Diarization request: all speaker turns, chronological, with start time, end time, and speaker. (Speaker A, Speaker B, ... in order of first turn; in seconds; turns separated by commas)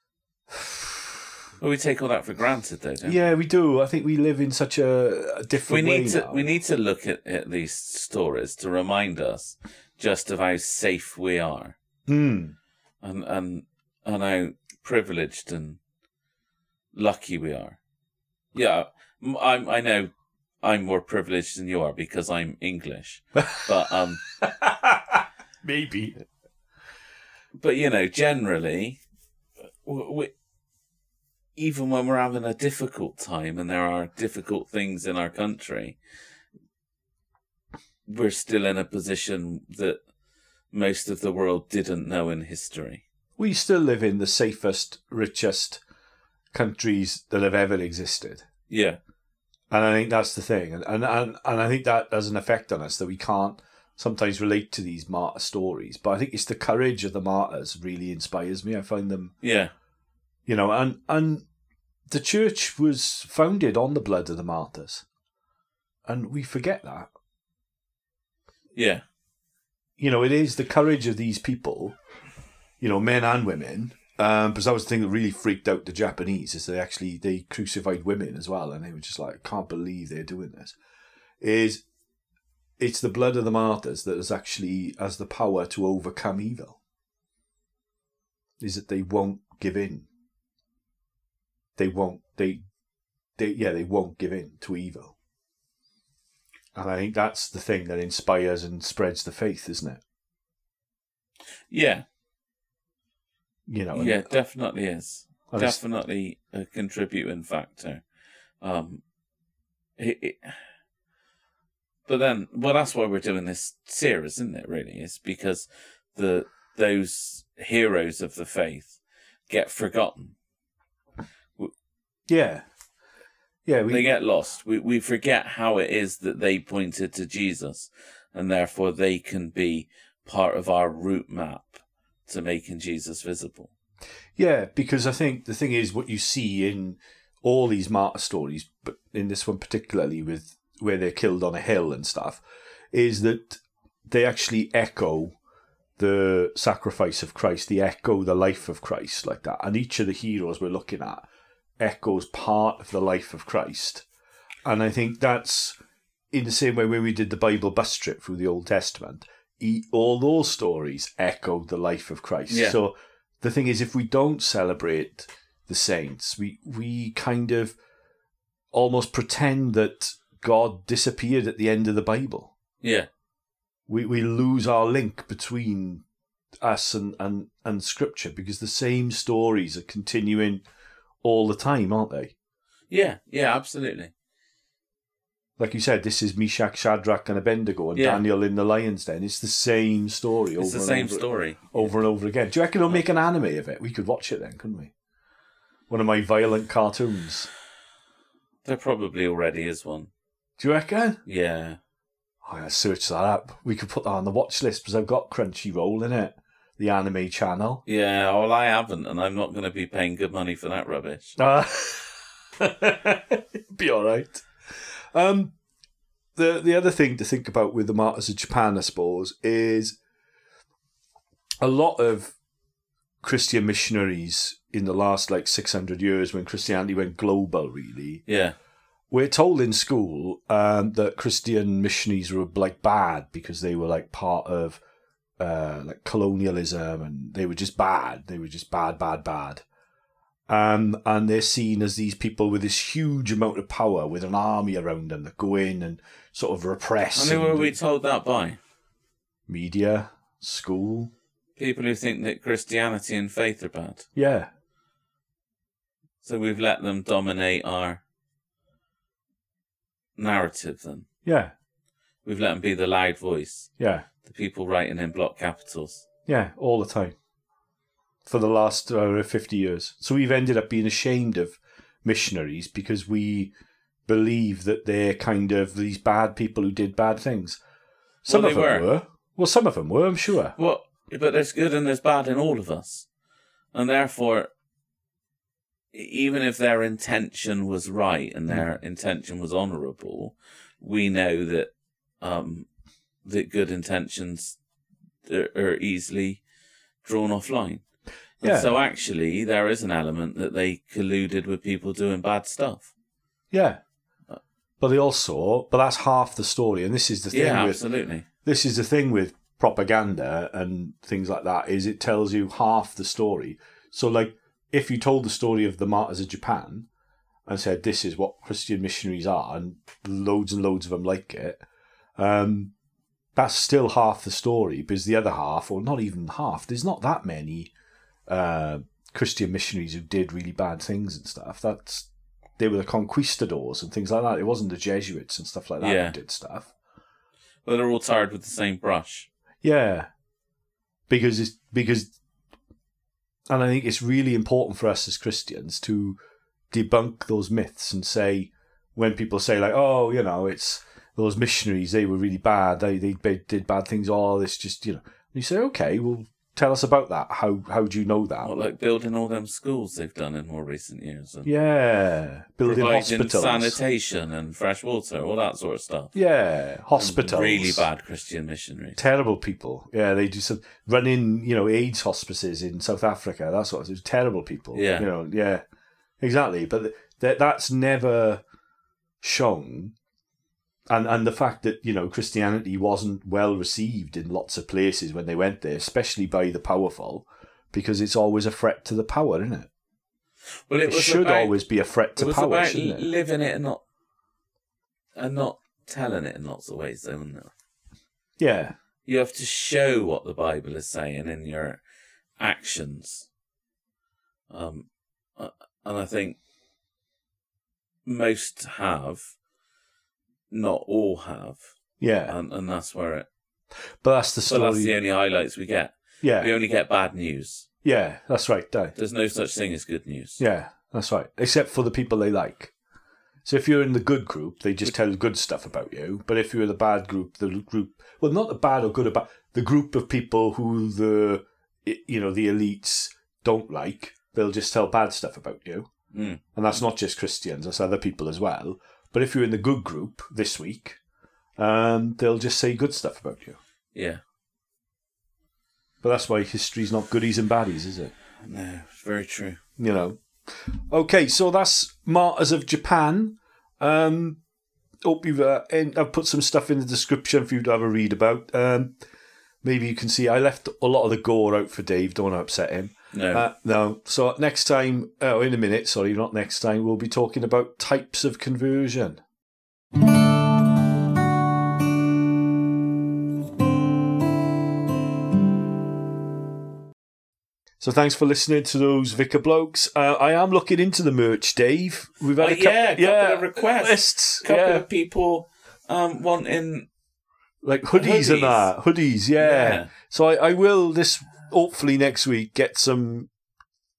Speaker A: 0.5-1.1, Speaker B: 1.6-3.2, Speaker A: 3.0-6.5, Speaker B: 5.7-11.8, Speaker A: 12.1-12.5, Speaker B: 13.0-15.8, Speaker B: 16.9-17.8, Speaker B: 18.5-20.1, Speaker B: 20.6-24.2, Speaker A: 23.4-23.7, Speaker A: 24.4-26.2, Speaker B: 27.5-29.0, Speaker B: 29.8-30.3, Speaker B: 31.6-36.0, Speaker B: 38.1-40.0, Speaker B: 40.7-43.0, Speaker A: 43.4-45.8, Speaker A: 46.5-48.5, Speaker B: 48.7-49.0, Speaker A: 49.7-59.3, Speaker B: 59.4-59.7, Speaker A: 60.5-61.4, Speaker A: 62.1-65.0, Speaker A: 66.0-67.1, Speaker B: 68.7-69.0, Speaker A: 70.0-72.0, Speaker A: 72.8-80.7, Speaker A: 81.4-81.8, Speaker A: 82.8-86.8, Speaker A: 88.6-90.1, Speaker A: 91.8-92.6, Speaker A: 93.4-95.1, Speaker A: 96.7-100.0, Speaker B: 101.7-102.0, Speaker A: 103.7-104.3, Speaker B: 103.9-108.0, Speaker A: 105.5-105.8, Speaker B: 108.6-109.0, Speaker B: 110.0-110.6, Speaker B: 112.1-120.3, Speaker A: 122.3-122.7, Speaker A: 123.7-124.1, Speaker B: 123.9-133.7, Speaker A: 134.4-142.4, Speaker A: 142.9-145.3, Speaker A: 146.0-151.3, Speaker A: 151.8-154.0, Speaker A: 154.6-155.8, Speaker A: 156.3-167.8, Speaker B: 162.5-162.8, Speaker A: 168.7-172.5, Speaker B: 172.8-173.1, Speaker A: 173.9-176.0, Speaker A: 176.6-180.6, Speaker A: 181.2-182.3, Speaker B: 182.9-184.1, Speaker A: 185.6-194.9, Speaker B: 187.9-188.2, Speaker B: 190.6-191.9, Speaker A: 195.9-197.5, Speaker B: 198.6-200.1, Speaker A: 200.6-201.2, Speaker B: 201.2-201.8, Speaker A: 202.4-207.8, Speaker B: 207.8-211.3, Speaker A: 211.4-214.5, Speaker A: 215.1-215.5, Speaker A: 216.3-220.0, Speaker A: 221.6-222.3, Speaker A: 223.2-228.2, Speaker B: 228.3-228.5, Speaker A: 229.1-234.8, Speaker A: 235.4-239.6, Speaker A: 240.5-247.8, Speaker B: 247.1-248.6, Speaker A: 249.5-251.1, Speaker B: 251.6-254.1, Speaker A: 254.1-254.5, Speaker B: 256.2-258.0, Speaker B: 260.1-261.1, Speaker A: 261.2-261.5, Speaker B: 262.2-263.7, Speaker A: 263.8-264.1, Speaker B: 264.2-266.1, Speaker A: 266.2-267.1, Speaker A: 268.2-273.5, Speaker A: 274.1-277.6, Speaker B: 278.2-278.9, Speaker A: 278.2-280.5, Speaker B: 280.6-283.1, Speaker B: 283.7-284.5, Speaker B: 285.9-291.7, Speaker B: 292.2-292.7, Speaker B: 293.2-294.6, Speaker B: 295.2-296.4, Speaker B: 297.0-297.8, Speaker B: 298.4-302.9, Speaker A: 298.4-298.8, Speaker A: 303.5-303.8, Speaker A: 304.8-307.8, Speaker B: 307.3-308.2, Speaker A: 308.4-316.9, Speaker A: 317.4-321.6, Speaker A: 322.2-322.7, Speaker A: 323.3-327.7, Speaker A: 328.3-336.7, Speaker B: 335.8-336.1, Speaker B: 337.6-339.3, Speaker A: 339.6-340.1, Speaker A: 341.1-342.1, Speaker A: 343.5-346.2, Speaker A: 346.7-358.5, Speaker B: 358.4-361.5, Speaker A: 361.4-363.8, Speaker B: 362.6-366.1, Speaker A: 366.1-367.9, Speaker B: 366.9-369.0, Speaker A: 369.0-375.6, Speaker B: 374.7-375.1, Speaker A: 376.2-378.4, Speaker A: 379.2-379.9, Speaker A: 380.9-389.7, Speaker B: 390.7-391.6, Speaker A: 390.8-393.1, Speaker B: 392.1-393.8, Speaker B: 395.1-397.5, Speaker A: 398.4-398.7, Speaker B: 399.1-401.8, Speaker B: 402.4-403.3, Speaker B: 404.5-406.4, Speaker B: 408.0-409.2, Speaker B: 410.5-411.6, Speaker A: 412.0-412.4, Speaker B: 412.3-413.3, Speaker A: 414.0-414.9, Speaker B: 414.4-417.7, Speaker A: 416.2-416.5, Speaker A: 417.8-418.9, Speaker B: 418.9-420.4, Speaker A: 420.4-422.7, Speaker A: 423.4-435.9, Speaker B: 436.1-436.4, Speaker A: 436.5-441.0, Speaker A: 441.6-443.6, Speaker B: 443.9-444.2, Speaker A: 446.0-448.1, Speaker B: 448.4-449.6, Speaker A: 449.8-454.4, Speaker A: 455.0-458.9, Speaker A: 459.6-469.2, Speaker B: 463.1-463.4, Speaker A: 477.8-484.8, Speaker B: 482.4-486.9, Speaker A: 487.6-493.3, Speaker B: 487.9-488.7, Speaker B: 489.4-489.9